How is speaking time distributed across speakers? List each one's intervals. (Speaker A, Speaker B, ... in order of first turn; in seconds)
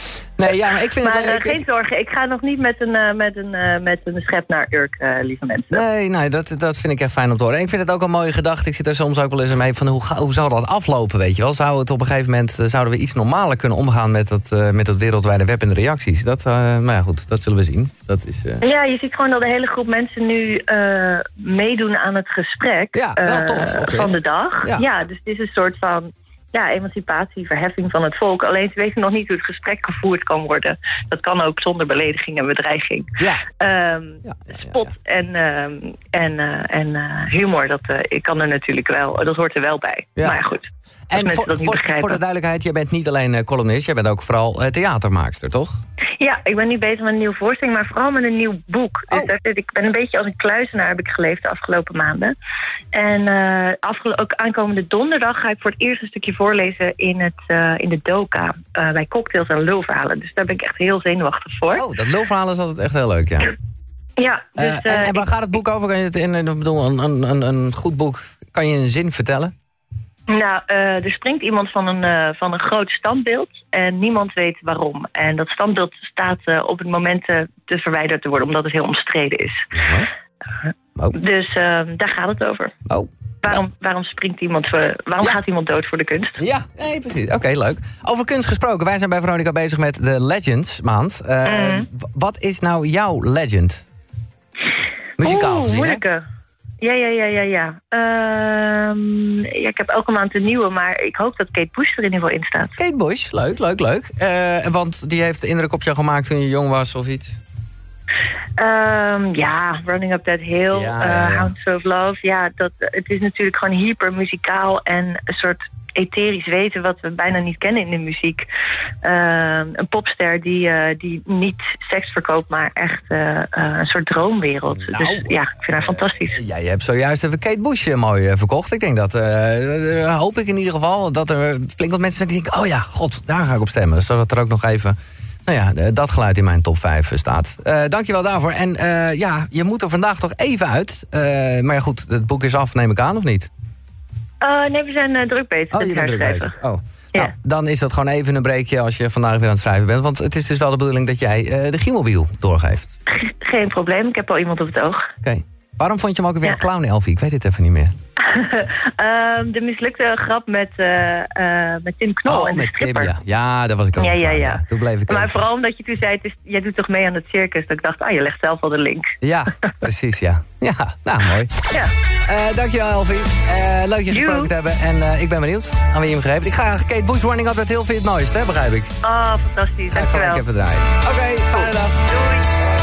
Speaker A: 0.4-1.6, 5.7-18.6, 22.9-24.8, 33.2-33.5, 34.3-34.8, 41.1-45.8, 61.7-63.5, 64.6-69.5, 79.7-80.1, 82.9-83.6, 86.4-93.8, 95.2-96.0, 102.8-107.4, 110.7-111.5, 124.8-143.5, 145.7-152.9, 155.2-157.9, 162.2-165.3, 169.2-171.5, 172.2-178.9, 179.9-182.1
Speaker B: 0.9-5.8, 18.6-42.2, 46.2-52.3, 52.9-61.8, 64.2-65.2, 70.3-79.7, 81.1-82.7, 83.4-86.4, 91.4-91.9, 95.2-96.2, 96.8-102.7, 108.6-118.4, 119.0-126.4, 144.4-146.6, 153.1-155.1, 158.2-163.1, 163.9-169.1, 174.1-174.5, 179.0-180.4, 181.5-182.5